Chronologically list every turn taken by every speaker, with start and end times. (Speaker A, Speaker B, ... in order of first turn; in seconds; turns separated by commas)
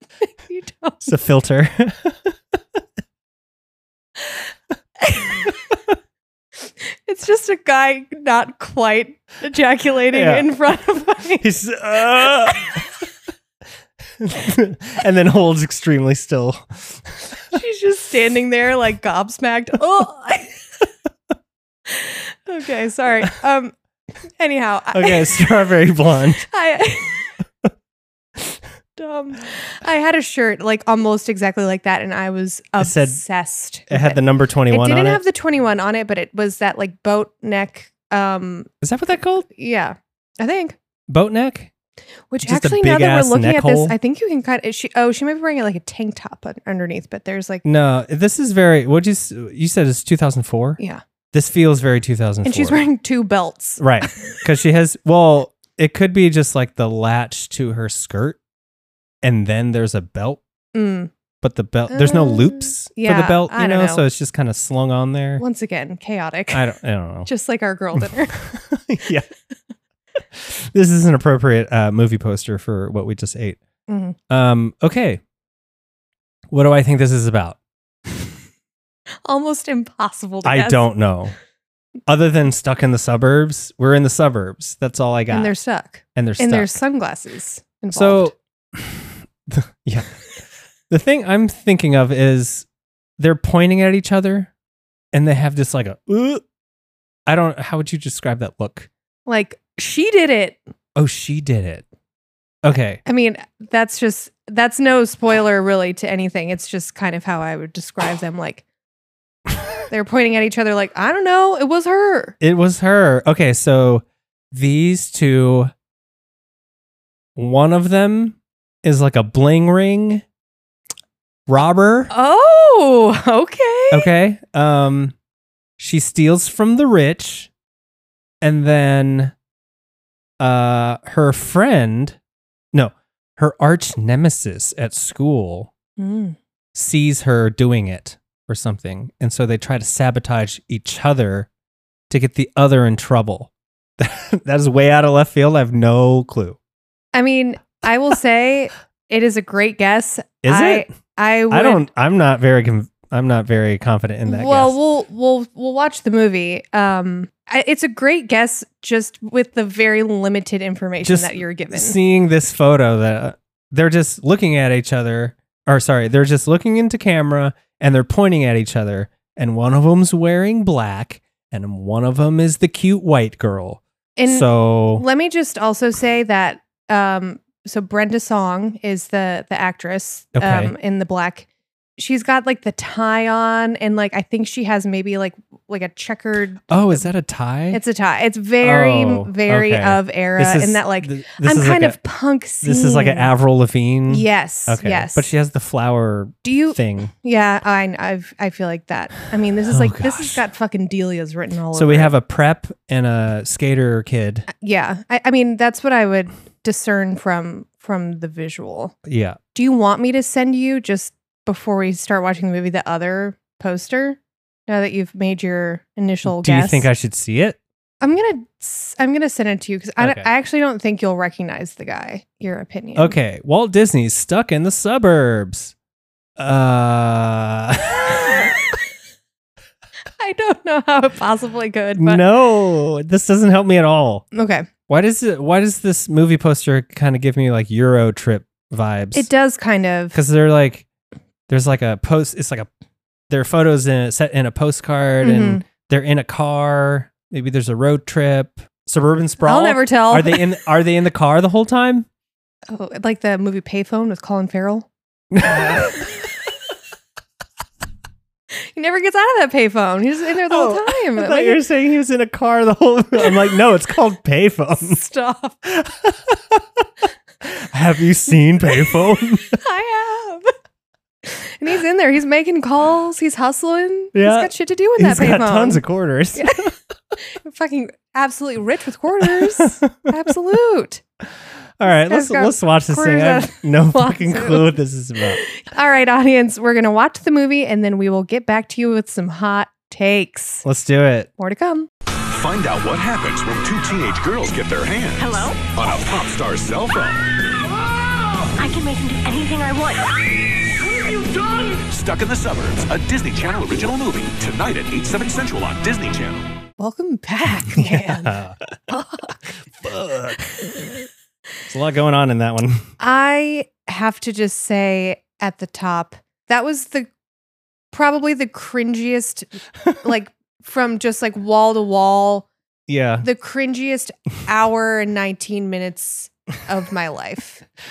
Speaker A: 0.4-1.1, Speaker B: 1.0-2.4, Speaker A: 5.0-5.5, Speaker A: 7.0-11.5, Speaker B: 10.1-10.5, Speaker B: 11.4-12.8, Speaker A: 12.4-12.8, Speaker B: 14.2-17.1, Speaker A: 17.5-20.6, Speaker A: 21.9-23.7, Speaker A: 24.4-25.4, Speaker B: 24.9-26.4, Speaker A: 26.4-27.3, Speaker A: 28.9-38.7, Speaker B: 32.8-33.2, Speaker B: 33.9-35.2, Speaker B: 38.8-39.5, Speaker A: 39.5-40.8, Speaker B: 41.1-41.7, Speaker A: 42.3-47.6, Speaker B: 42.4-43.9, Speaker B: 47.6-50.8, Speaker B: 51.3-52.8, Speaker A: 52.4-54.4, Speaker B: 53.8-58.4, Speaker B: 59.2-60.4, Speaker A: 60.7-61.1, Speaker B: 61.4-65.4, Speaker A: 61.9-64.0, Speaker A: 65.4-66.7, Speaker B: 66.5-67.3, Speaker A: 67.2-68.4, Speaker B: 68.0-69.3, Speaker B: 70.3-73.6, Speaker A: 73.9-74.2, Speaker B: 74.3-75.2, Speaker B: 76.5-77.6, Speaker A: 79.2-80.9, Speaker B: 80.4-81.3, Speaker B: 82.1-85.5, Speaker A: 85.3-88.3, Speaker B: 86.1-86.7, Speaker B: 87.9-90.1, Speaker B: 90.9-92.7, Speaker B: 93.2-94.5, Speaker B: 95.1-96.4, Speaker B: 97.2-98.9, Speaker A: 99.2-100.6, Speaker B: 101.0-101.8, Speaker B: 102.6-103.0, Speaker A: 103.0-108.6, Speaker A: 109.9-112.3, Speaker B: 112.4-115.7, Speaker B: 117.3-120.2, Speaker B: 121.5-122.1, Speaker A: 122.1-124.1, Speaker B: 123.9-125.1, Speaker B: 125.8-127.5, Speaker B: 128.4-129.3, Speaker B: 130.4-132.2, Speaker B: 132.7-135.7, Speaker A: 136.0-136.4, Speaker B: 136.7-141.5, Speaker B: 142.1-146.6, Speaker A: 147.1-151.8, Speaker B: 150.4-150.9, Speaker B: 151.5-154.8, Speaker A: 154.3-161.9, Speaker B: 161.0-175.0, Speaker A: 174.2-187.1, Speaker B: 180.3-180.7, Speaker B: 186.7-187.8, Speaker A: 187.7-193.3, Speaker B: 188.6-192.0, Speaker B: 192.6-197.1, Speaker A: 194.1-195.3, Speaker A: 196.4-202.1, Speaker B: 199.7-200.4, Speaker B: 201.7-204.5, Speaker A: 204.5-208.9, Speaker B: 209.0-209.4, Speaker A: 209.5-216.9, Speaker B: 216.2-217.6, Speaker A: 218.0-223.2, Speaker B: 220.0-220.3, Speaker B: 222.9-225.7, Speaker B: 226.4-228.5, Speaker A: 230.2-232.2, Speaker B: 232.0-234.2, Speaker A: 234.3-234.7, Speaker B: 234.9-239.3, Speaker A: 239.1-240.2, Speaker B: 240.1-240.8, Speaker B: 241.5-242.7, Speaker B: 243.3-252.1, Speaker A: 245.2-245.6, Speaker A: 249.4-250.5, Speaker A: 252.7-254.9, Speaker B: 255.3-256.0, Speaker A: 258.7-261.6, Speaker B: 260.5-265.0, Speaker A: 264.8-265.6, Speaker B: 265.6-266.8, Speaker B: 267.4-269.6, Speaker A: 269.4-270.5, Speaker A: 271.2-275.8, Speaker B: 274.1-276.7, Speaker A: 276.3-276.7, Speaker A: 277.2-281.0, Speaker B: 279.2-279.9, Speaker B: 281.8-285.4, Speaker A: 281.9-290.6, Speaker B: 290.6-291.3, Speaker A: 291.4-291.9, Speaker C: 292.3-297.3, Speaker D: 295.2-295.8, Speaker D: 298.6-300.1, Speaker C: 300.8-306.4, Speaker A: 306.8-309.4, Speaker B: 307.6-308.6, Speaker B: 309.8-310.9, Speaker B: 311.7-312.9, Speaker A: 313.0-317.1, Speaker A: 317.9-322.5, Speaker B: 322.9-323.3, Speaker A: 323.2-327.6